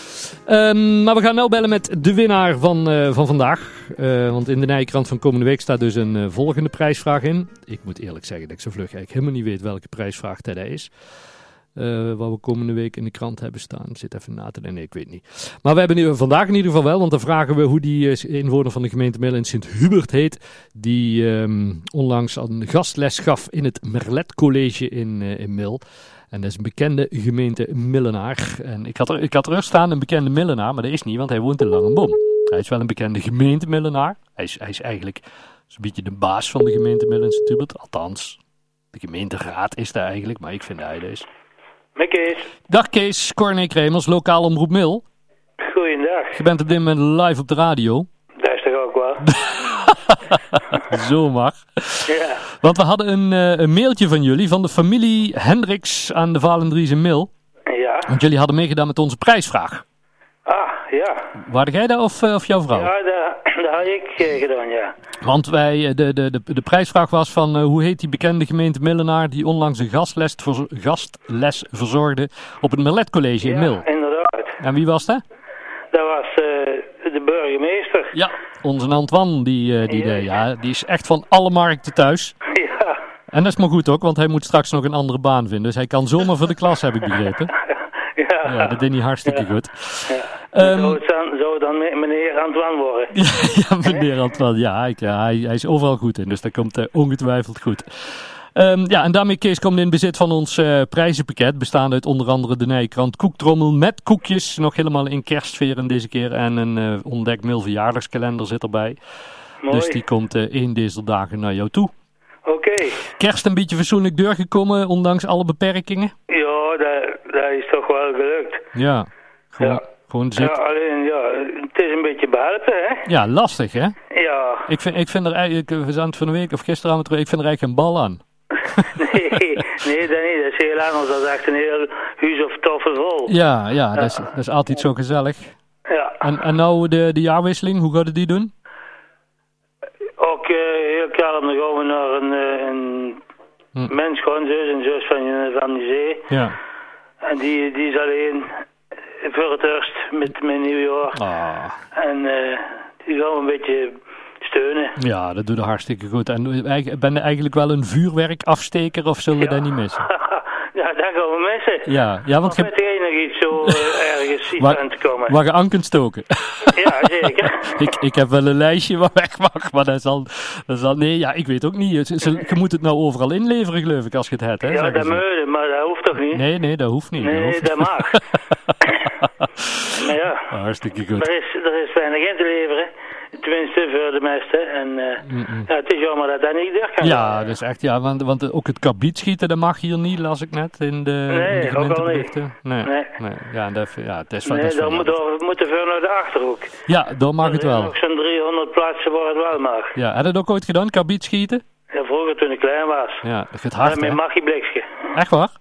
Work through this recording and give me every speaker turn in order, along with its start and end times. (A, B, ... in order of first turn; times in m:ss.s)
0:00.5-0:10.9 A
0:11.8-0:25.8 A
0:26.3-0:38.4 A
0:38.9-0:41.3 A
0:42.0-0:42.5 B
0:42.7-0:45.0 A
0:45.6-0:46.4 B
0:46.3-0:48.1 A
0:48.4-0:49.3 B
0:49.2-0:57.3 A
0:52.1-0:52.4 B
0:57.7-0:58.1 B
0:58.1-0:59.8 A
1:00.5-1:01.2 B
1:01.4-1:02.9 A
1:02.7-1:04.9 B
1:05.2-1:13.9 A
1:13.4-1:14.6 B
1:14.6-1:15.2 A
1:15.9-1:18.1 B
1:18.1-1:22.4 A
1:19.9-1:20.2 B
1:22.5-1:23.0 B
1:23.3-1:27.5 A
1:27.6-1:29.4 B
1:28.4-1:31.0 A
1:30.1-1:33.1 B
1:33.1-1:49.0 A
1:49.6-1:50.0 B
1:49.7-1:51.9 A
1:52.5-1:53.0 B
1:53.0-1:56.1 A
1:56.3-1:58.6 B
1:58.8-2:00.6 A
2:00.4-2:03.0 B
2:03.1-2:04.0 A
2:04.1-2:04.7 B
2:04.7-2:09.7 A
2:09.0-2:13.3 B
2:13.3-2:15.6 A
2:15.9-2:16.2 B
2:16.2-2:18.5 A
2:20.2-2:23.2 B
2:23.9-2:26.3 B
2:26.3-2:26.6 A
2:27.2-2:28.5 B
2:29.2-2:31.2 B
2:31.1-2:31.8 A
2:32.0-2:34.9 B
2:35.0-2:40.1 A
2:39.4-2:41.9 B
2:41.8-2:42.7 A
2:42.4-2:45.4 B
2:43.6-2:43.9 A
2:44.6-2:55.2 A
2:46.8-2:47.7 B
2:54.7-2:56.4 B
2:56.3-3:01.3 A
2:57.2-2:58.2 B
3:00.0-3:00.5 B
3:01.2-3:07.4 B
3:05.2-3:05.7 A
3:07.0-3:15.1 A
3:11.3-3:12.3 B
3:12.8-3:13.1 B
3:14.5-3:16.7 B
3:16.9-3:17.9 A
3:17.4-3:19.9 B
3:20.0-3:21.6 A
3:21.9-3:23.2 B
3:23.2-3:24.2 A
3:23.8-3:25.0 B
3:25.1-3:25.5 A